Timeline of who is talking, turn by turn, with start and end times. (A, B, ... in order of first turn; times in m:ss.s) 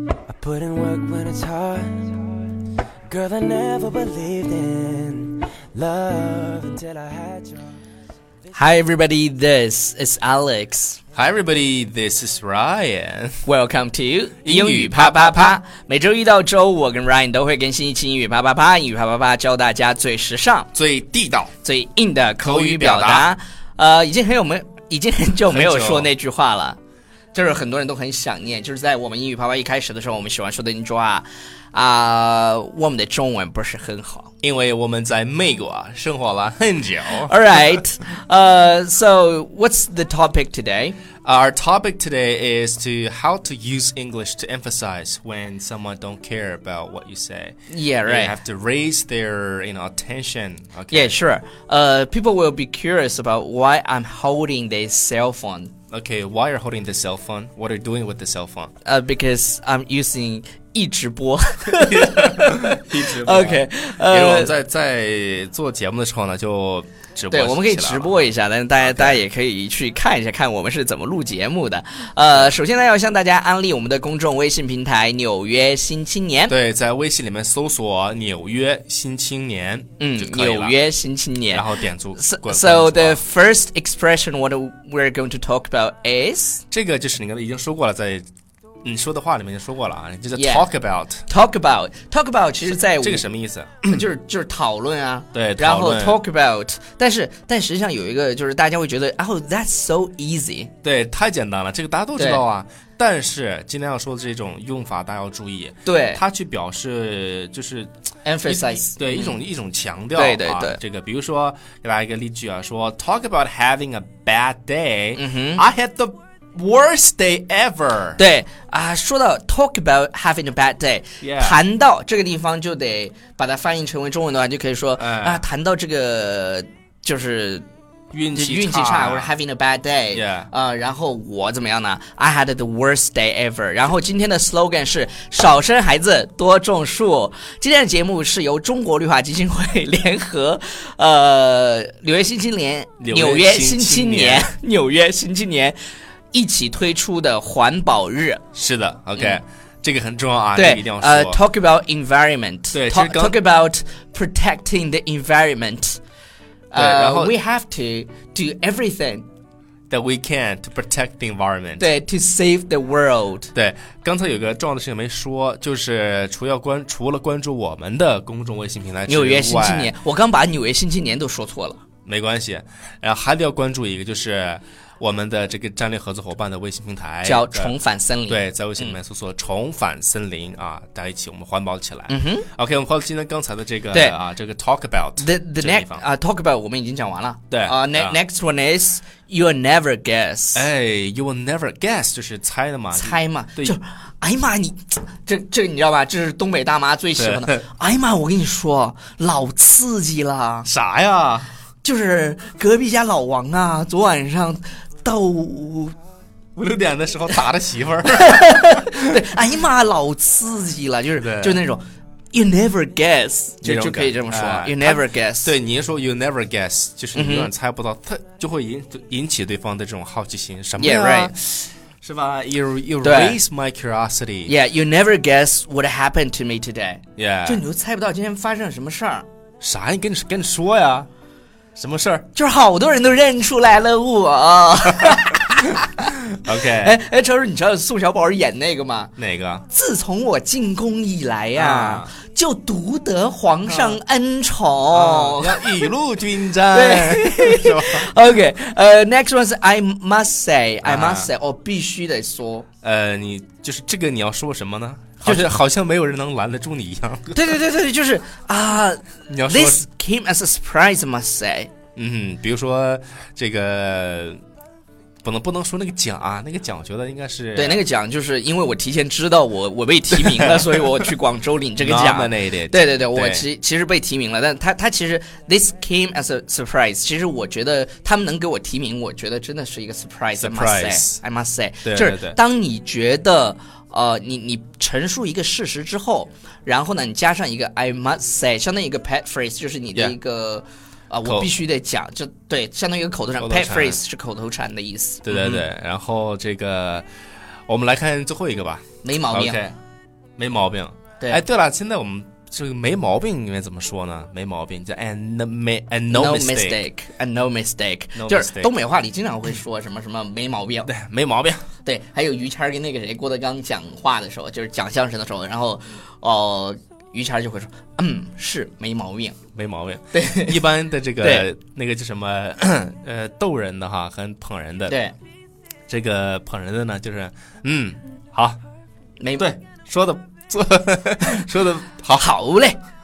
0:00.3-0:02.3 A
0:03.1-0:07.6 A
0:08.5-0:11.0 B
0:11.1-0:13.4 C
0:13.4-0:20.7 B
0:14.4-0:15.6 C
0:20.7-0:21.5 C
0:21.6-0:26.8 B
0:22.4-0:23.3 C
0:25.5-0:26.1 C
0:27.3-0:34.3 B
0:34.4-0:37.4 C
0:37.2-0:41.0 B
0:41.2-0:51.2 C
0:47.7-0:48.3 B
0:50.9-0:55.7 B
0:55.9-0:58.7 C
0:58.8-1:04.5 B
1:01.7-1:08.2 C
1:07.3-1:16.6 B
1:08.8-1:09.2 C
1:16.5-1:20.8 C
1:20.0-1:26.6 B
1:21.5-1:23.2 C
1:26.7-1:28.2 C
1:28.8-1:31.2 C
1:30.3-1:30.7 B
1:31.3-1:33.2 B
1:32.7-1:34.0 C
1:33.8-1:40.7 B
1:35.3-1:36.2 C
1:40.8-1:47.9 C
1:45.8-1:46.2 B
1:48.2-1:49.4 B
1:48.4-1:58.2 C
1:50.1-1:50.8 B
1:55.2-1:55.6 B
1:58.2-2:07.6 B
2:01.2-2:01.6 C
2:05.0-2:05.4 C
2:08.1-2:09.3 C
2:08.3-2:25.8 B
2:10.1-2:10.5 C
2:23.0-2:24.5 C
2:26.3-2:28.4 B
2:28.5-2:31.4 C
2:30.5-2:36.0 B
2:32.7-2:33.4 C
2:36.7-2:39.2 B
2:36.7-2:37.4 C
2:39.9-2:41.9 C
2:41.8-2:43.5 B
2:43.5-2:49.9 C
2:49.1-2:51.8 B
2:52.0-2:57.7 C
2:57.2-2:59.0 B
2:58.3-3:06.0 C
3:02.1-3:02.5 B
3:03.9-3:04.2 B
3:05.2-3:10.7 B
3:07.5-3:08.2 C
3:10.5-3:13.8 C
3:12.9-3:20.7 B
3:17.2-3:17.6 C
3:20.6-3:21.5 C
3:21.8-3:26.0 B
3:26.6-3:29.0 C
3:28.1-3:35.5 B
3:31.2-3:31.6 C
3:33.6-3:44.5 C
3:37.1-3:37.5 B
3:40.8-3:41.3 B
3:43.0-3:43.4 B
3:44.4-3:49.2 B
3:47.2-3:47.6 C
3:49.6-3:51.1 C
3:51.8-3:52.3 C
3:52.3-3:59.1 B
3:56.3-3:57.0 C
3:59.2-3:59.6 C
3:59.7-4:05.9 B
4:01.5-4:02.1 C
4:03.6-4:04.0 C
4:04.9-4:08.1 C
4:06.7-4:12.7 B
4:10.8-4:11.3 C
4:12.8-4:17.5 C
4:15.2-4:15.5 B
4:17.3-4:21.7 B
4:19.3-4:19.8 C
4:21.9-4:24.4 C
4:25.2-4:27.8 C
4:27.5-4:55.6 B
4:30.2-4:31.1 C
4:31.8-4:33.5 C
4:40.4-4:41.2 C
4:41.8-4:42.4 C
4:51.2-4:51.5 C
4:53.4-4:54.0 C
4:55.2-4:57.0 C
4:57.7-4:59.8 C
4:59.0-4:59.6 B
5:00.4-5:06.8 C
5:06.1-5:10.9 B
5:08.1-5:08.7 C
5:10.8-5:11.6 C
5:11.8-5:19.4 B
5:19.5-5:25.0 C
5:20.1-5:20.6 B
5:21.2-5:21.4 B
5:24.9-5:25.1 B
5:25.9-5:28.6 C
5:29.2-5:29.5 B
5:29.4-5:32.3 C
5:32.1-5:32.8 B